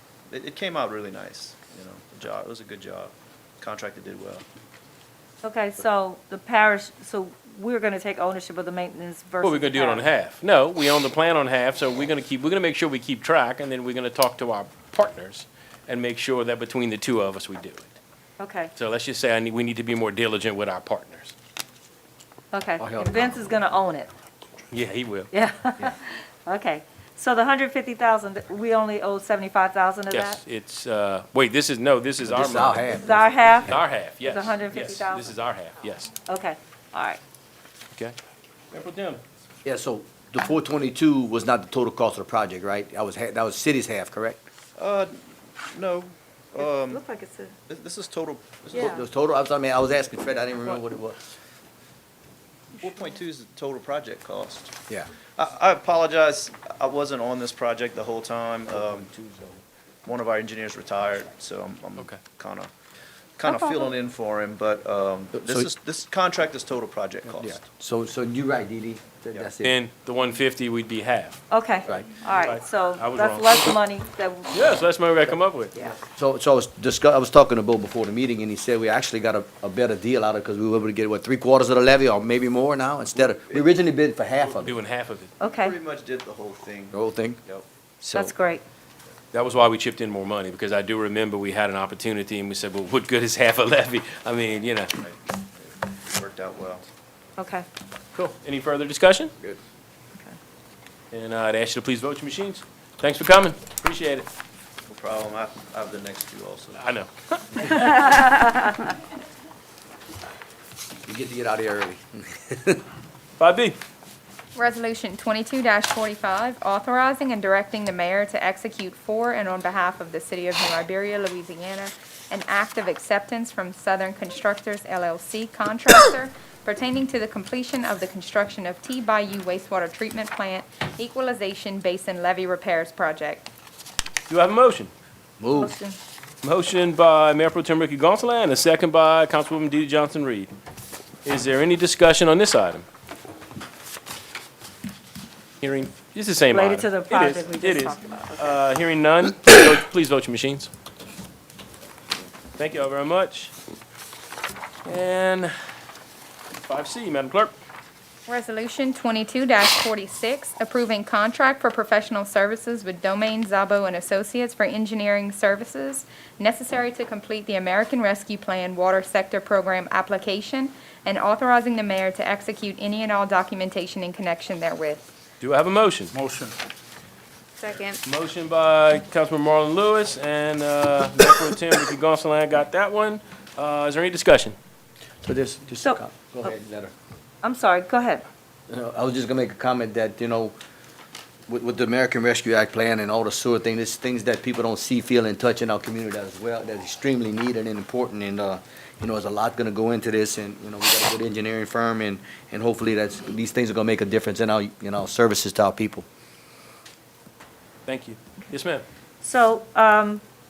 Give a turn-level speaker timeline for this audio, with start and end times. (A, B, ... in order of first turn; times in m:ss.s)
0:00.3-0:04.4 A
0:05.4-0:10.0 B
0:09.4-0:18.0 C
0:18.4-0:18.7 B
0:18.8-0:21.3 C
0:22.5-0:24.1 B
0:22.8-0:23.4 D
0:24.7-0:25.3 C
0:25.3-0:30.4 B
0:30.1-0:32.9 C
0:32.2-0:33.6 D
0:32.8-0:35.3 B
0:33.6-0:36.1 C
0:36.2-0:37.2 B
0:38.7-0:39.2 C
0:39.6-0:44.4 D
0:44.8-0:47.0 A
0:46.6-0:47.6 B
0:47.7-0:49.0 A
0:48.7-0:49.0 B
0:48.7-0:51.2 D
0:52.8-0:54.7 A
0:55.4-0:59.1 A
0:58.8-0:59.6 D
1:00.0-1:02.7 A
1:03.4-1:07.6 A
1:03.4-1:03.9 B
1:05.3-1:05.7 D
1:07.4-1:09.8 D
1:09.6-1:11.4 C
1:11.5-1:14.7 B
1:12.3-1:13.7 C
1:14.5-1:15.7 C
1:16.2-1:24.7 D
1:23.1-1:23.7 A
1:24.4-1:24.6 A
1:24.6-1:25.3 C
1:25.4-1:25.8 B
1:25.4-1:27.6 A
1:26.9-1:27.4 D
1:28.0-1:28.6 B
1:29.3-1:34.9 C
1:35.0-1:36.8 A
1:37.4-1:37.6 B
1:38.1-1:39.3 C
1:41.1-1:44.3 C
1:44.9-1:46.8 A
1:46.7-1:48.2 C
1:47.8-1:48.4 B
1:51.0-1:52.8 D
1:53.4-1:53.8 C
1:54.5-2:13.5 E
2:14.3-2:14.9 C
2:15.4-2:15.7 D
2:15.5-2:16.0 B
2:16.4-2:20.5 C
2:21.2-2:22.8 C
2:25.6-2:30.7 C
2:26.5-2:28.5 B
2:32.6-2:33.5 C
2:34.8-2:35.5 C
2:36.6-2:37.5 C
2:38.3-2:55.0 E
2:55.4-2:56.1 C
2:57.6-2:58.0 E
2:58.0-3:04.6 C
3:05.2-3:06.9 D
3:05.8-3:06.5 B
3:07.4-3:08.2 B
3:08.7-3:10.5 D
3:11.5-3:26.0 D
3:27.8-3:28.8 C
3:29.2-3:30.2 B